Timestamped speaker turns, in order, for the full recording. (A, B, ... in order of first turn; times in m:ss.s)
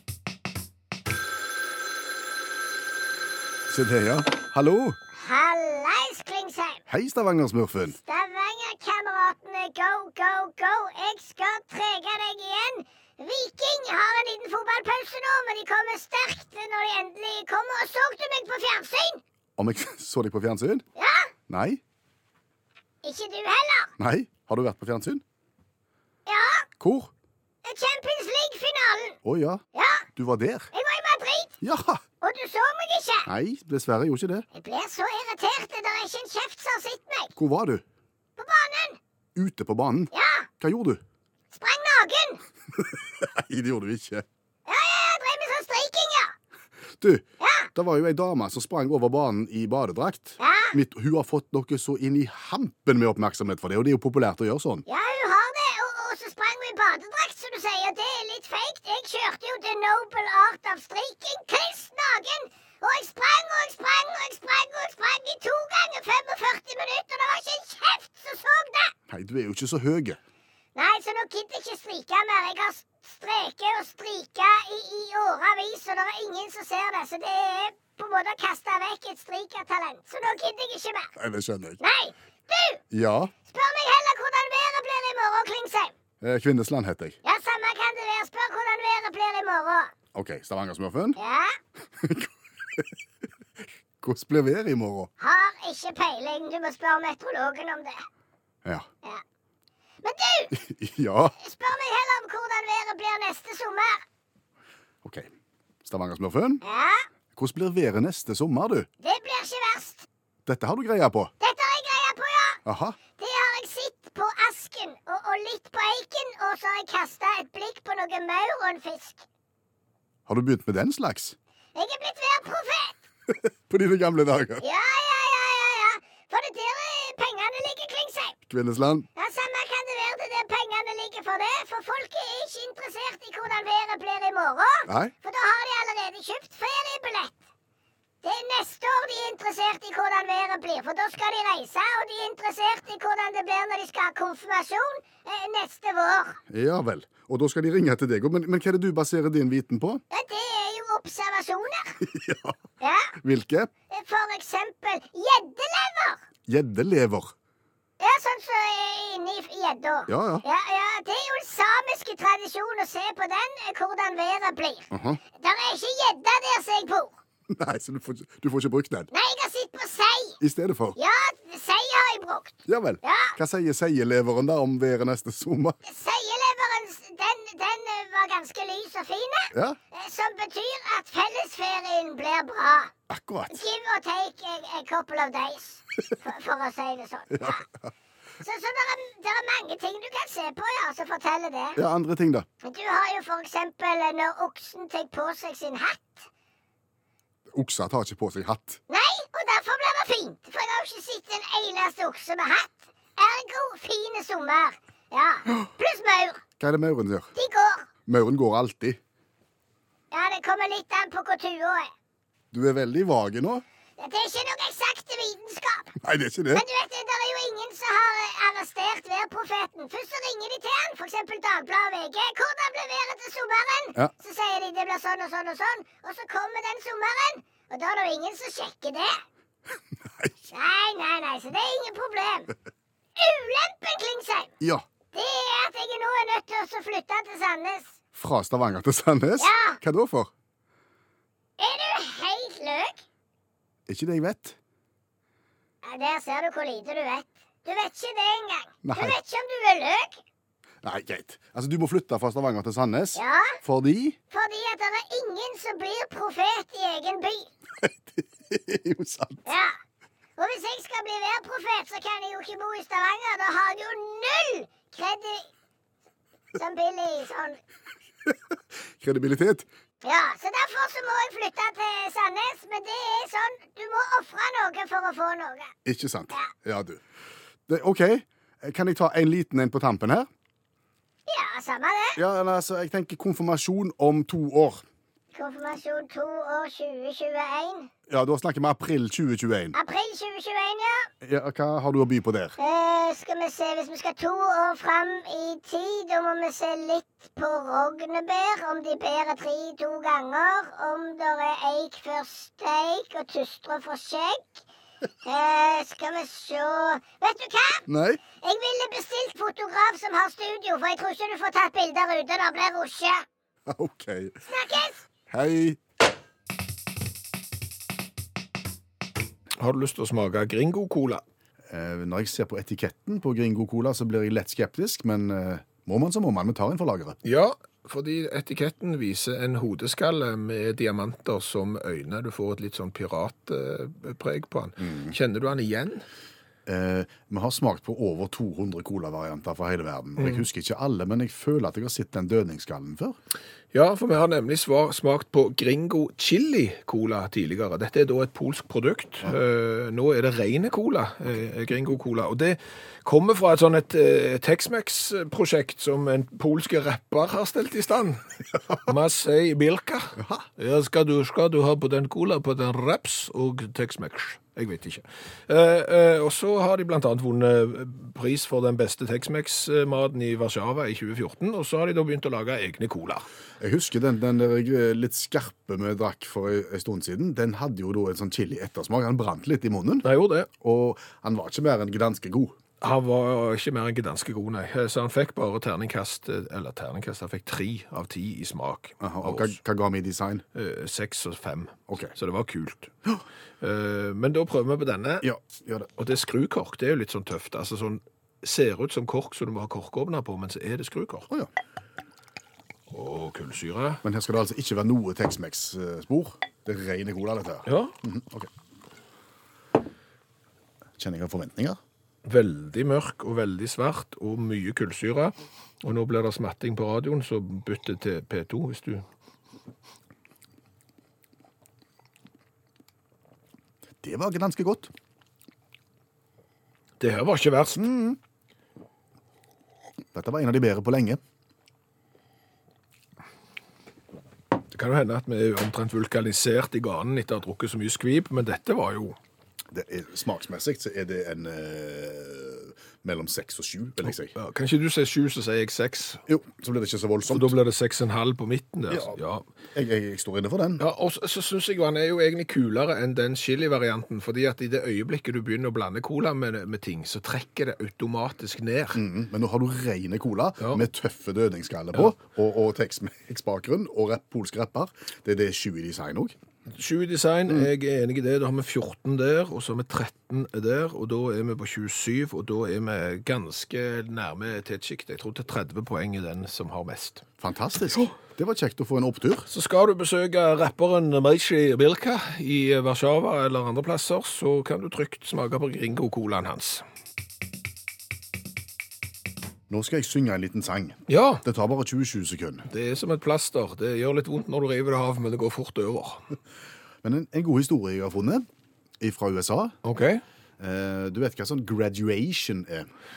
0:03.7-0:05.0 A
0:05.2-0:06.8 B
0:06.9-0:08.0 A
0:08.0-0:19.2 B
0:19.6-0:20.8 A
0:21.0-0:21.3 B
0:21.5-0:21.8 A
0:23.0-0:23.9 B
0:24.0-0:25.2 A
0:26.2-0:26.7 B
0:26.8-0:27.1 A
0:27.6-0:29.2 B
0:29.2-0:29.6 A
0:29.7-0:30.1 B
0:30.1-0:30.7 A
0:30.7-0:31.5 B
0:31.6-0:32.0 A
0:32.2-0:33.3 B
0:33.2-0:34.4 A
0:34.5-0:37.3 B
0:37.4-0:37.8 A
0:38.4-0:39.0 B
0:39.4-0:41.0 A
0:40.1-0:40.5 B
0:41.5-0:42.4 B
0:42.7-0:44.2 A
0:44.6-0:46.3 B
0:47.0-0:47.2 A
0:47.4-0:47.7 B
0:47.7-0:54.8 A
0:50.4-0:50.7 B
0:54.8-1:08.9 B
1:09.1-1:10.2 A
1:10.8-1:21.1 B
1:21.2-1:21.8 A
1:21.8-1:22.8 B
1:22.9-1:23.3 A
1:23.4-1:25.9 B
1:26.2-1:27.2 A
1:27.2-1:29.9 B
1:30.1-1:31.2 A
1:31.2-1:31.6 B
1:32.0-1:32.9 A
1:34.0-1:35.1 A
1:35.2-1:38.1 B
1:40.0-1:40.5 B
1:40.5-1:41.3 A
1:41.4-1:44.0 B
1:45.0-1:45.3 A
1:45.8-1:46.6 A
1:46.6-1:47.0 B
1:47.3-1:48.9 A
1:49.0-1:50.1 B
1:50.4-1:51.3 A
1:51.4-1:52.6 B
1:52.6-1:53.0 A
1:53.2-1:59.2 B
2:00.3-2:01.4 A
2:01.7-2:03.0 B
2:03.3-2:04.6 A
2:04.6-2:08.4 B
2:08.5-2:09.1 A
2:09.2-2:17.3 B
2:14.9-2:15.1 A
2:18.2-2:26.4 B
2:26.5-2:30.0 A
2:30.1-2:32.0 B
2:32.0-2:32.6 A
2:32.8-2:33.1 B
2:33.2-2:33.7 A
2:33.9-2:36.2 B
2:36.5-2:37.3 A
2:38.0-2:47.1 B
2:40.1-2:40.4 A
2:44.9-2:45.2 A
2:47.5-2:49.1 A
2:49.1-2:50.4 B
2:50.4-2:51.0 A
2:51.0-2:53.3 B
2:52.7-2:55.8 A
2:55.8-3:02.9 B
2:59.5-2:59.8 A
3:03.1-3:03.6 A
3:03.5-3:07.6 B
3:07.3-3:07.9 A
3:08.4-3:11.8 B
3:11.8-3:12.5 A
3:12.6-3:16.3 B
3:17.5-3:18.8 A
3:18.9-3:26.4 B
3:26.6-3:27.3 A
3:27.3-3:27.9 B
3:28.0-3:29.0 A
3:30.1-3:31.9 B
3:32.5-3:33.6 A
3:34.0-3:36.0 B
3:36.0-3:36.6 A
3:36.5-3:49.2 B
3:50.0-3:50.4 A
3:50.5-3:52.5 B
3:53.2-3:54.5 B
3:54.6-3:54.8 A
3:55.1-3:58.0 B
3:58.1-4:00.3 A
3:59.4-3:59.8 B
4:01.6-4:03.0 B
4:03.9-4:04.6 A
4:05.8-4:10.2 B
4:08.8-4:09.2 A
4:10.8-4:14.2 A
4:13.1-4:13.6 B
4:14.3-4:17.5 B
4:17.8-4:19.4 A
4:19.4-4:19.8 B
4:20.4-4:25.5 B
4:26.5-4:27.6 B
4:29.0-4:29.6 A
4:30.0-4:35.7 B
4:35.8-4:37.0 A
4:37.7-4:40.3 A
4:41.3-4:42.2 B
4:42.2-4:44.8 A
4:45.3-4:47.9 B
4:48.1-4:49.7 A
4:49.7-4:51.1 B
4:51.2-4:52.6 A
4:52.6-5:04.6 B
5:05.2-5:07.8 B
5:07.9-5:08.2 A
5:08.4-5:13.2 B
5:13.6-5:14.4 A
5:14.5-5:15.0 B
5:15.3-5:15.8 A
5:19.6-5:21.2 C
5:21.7-5:27.2 A
5:27.2-5:36.0 C
5:34.9-5:35.1 A
5:36.6-5:43.2 A
5:43.7-5:58.2 C
5:58.8-6:13.2 C
6:00.2-6:00.4 A
6:13.6-6:22.6 A
6:20.0-6:20.5 C
6:22.8-6:29.6 C
6:29.0-6:30.4 A
6:30.5-6:32.9 C
6:33.6-6:35.3 C
6:35.2-6:35.9 A
6:36.0-6:41.3 C
6:42.9-6:44.0 C
6:44.0-6:48.5 A
6:47.6-6:47.9 C
6:51.0-6:51.8 A
6:52.2-6:59.0 C
7:04.0-7:04.9 A
7:07.0-7:07.9 C
7:07.7-7:08.2 A
7:10.1-7:11.2 A
7:14.7-7:19.2 C
7:19.7-7:24.3 A
7:24.3-7:26.2 C
7:26.3-7:27.6 A
7:27.3-7:29.4 C
7:28.9-7:29.2 A
7:29.7-7:30.8 A
7:30.8-7:39.0 C
7:38.9-7:46.3 A
7:46.7-7:57.2 C
7:57.4-7:59.5 A
7:59.5-8:06.8 C
8:09.7-8:12.7 A
8:11.1-8:11.4 C
8:12.7-8:16.2 C
8:17.0-8:18.4 A
8:19.0-8:19.8 A
8:19.8-8:20.2 C
8:20.6-8:22.9 A